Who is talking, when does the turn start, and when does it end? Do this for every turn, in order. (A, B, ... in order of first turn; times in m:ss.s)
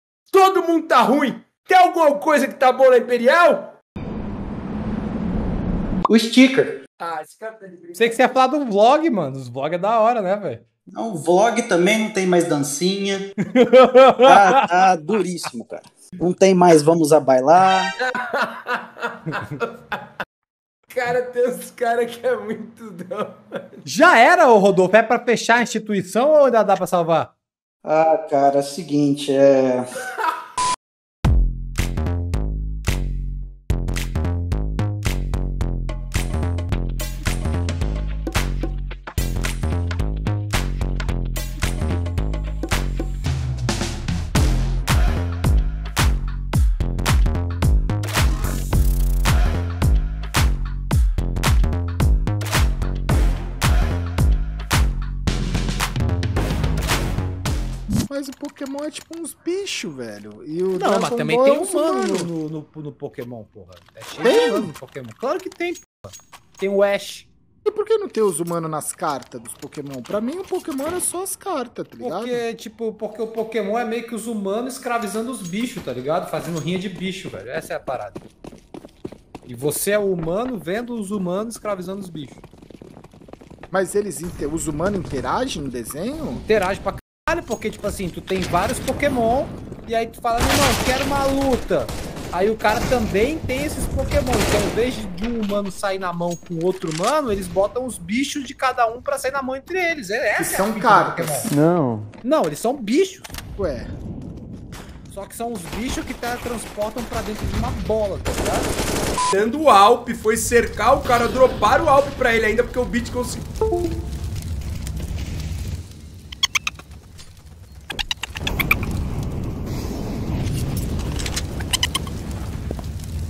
0:00.3-0:03.7 A
0:06.1-0:06.8 B
0:07.0-0:08.2 A
0:08.0-0:10.6 C
0:10.9-0:13.3 B
0:13.6-0:14.6 C
0:14.2-0:17.9 B
0:18.0-0:20.1 A
0:20.9-0:23.8 A
0:23.8-0:27.3 C
0:27.8-0:29.9 B
0:58.1-1:02.3 D
1:00.7-1:07.3 C
1:04.2-1:04.7 D
1:07.6-1:12.4 D
1:12.0-1:18.2 C
1:19.4-1:22.4 C
1:23.7-1:26.4 D
1:26.3-1:41.6 C
1:40.4-1:41.5 D
1:42.2-1:43.4 C
1:43.6-1:43.9 D
1:45.1-1:48.7 C
1:49.3-1:53.5 A